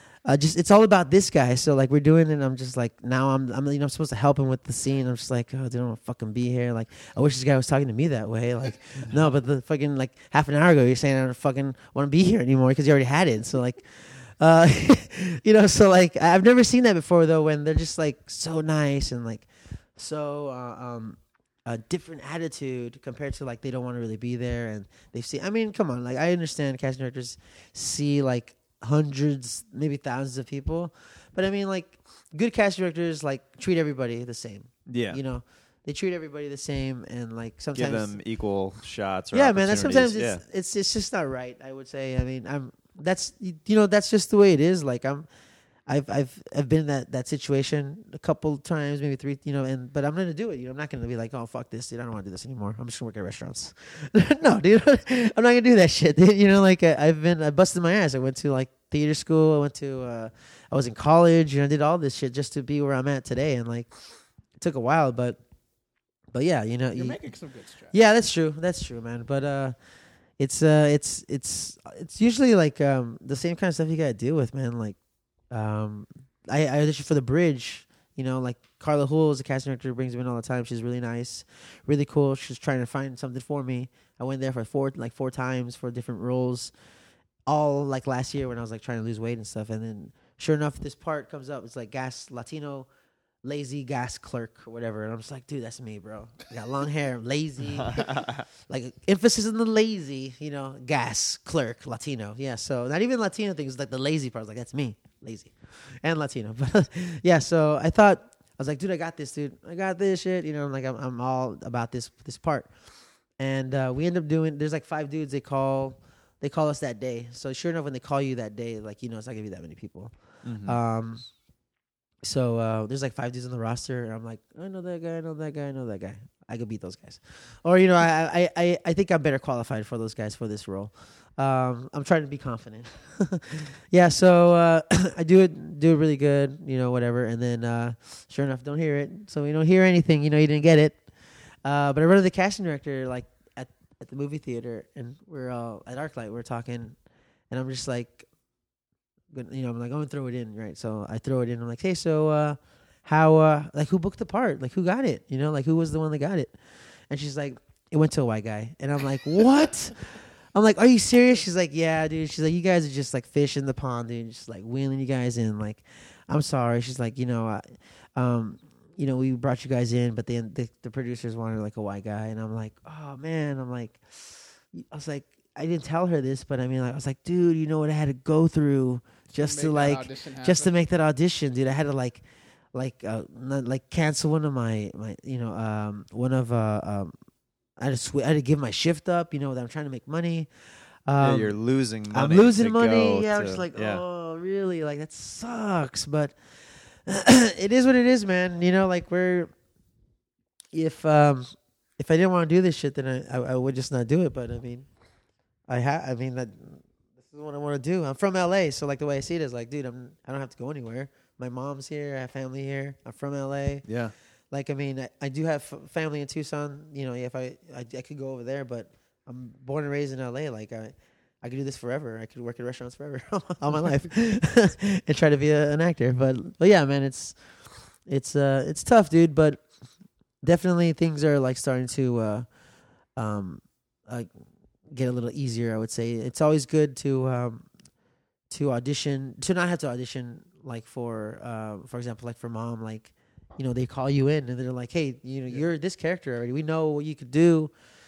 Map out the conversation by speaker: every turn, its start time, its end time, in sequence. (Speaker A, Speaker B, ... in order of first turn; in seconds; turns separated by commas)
Speaker A: 0.2-38.2, Speaker B: 34.9-35.2, Speaker B: 37.8-40.4, Speaker A: 39.3-45.3, Speaker A: 45.9-65.4, Speaker A: 66.3-67.2, Speaker C: 67.0-68.0, Speaker A: 67.9-69.8, Speaker A: 70.4-75.0, Speaker A: 75.5-86.7, Speaker A: 87.5-92.9, Speaker A: 93.4-121.2, Speaker B: 97.9-98.4, Speaker B: 120.4-120.8, Speaker A: 122.2-147.0, Speaker A: 147.5-148.3, Speaker A: 149.3-187.1, Speaker C: 179.3-180.7, Speaker A: 187.8-199.5, Speaker B: 191.2-194.0, Speaker A: 200.7-204.9, Speaker A: 205.7-234.3, Speaker B: 213.8-214.2, Speaker A: 234.9-237.7, Speaker A: 238.5-247.7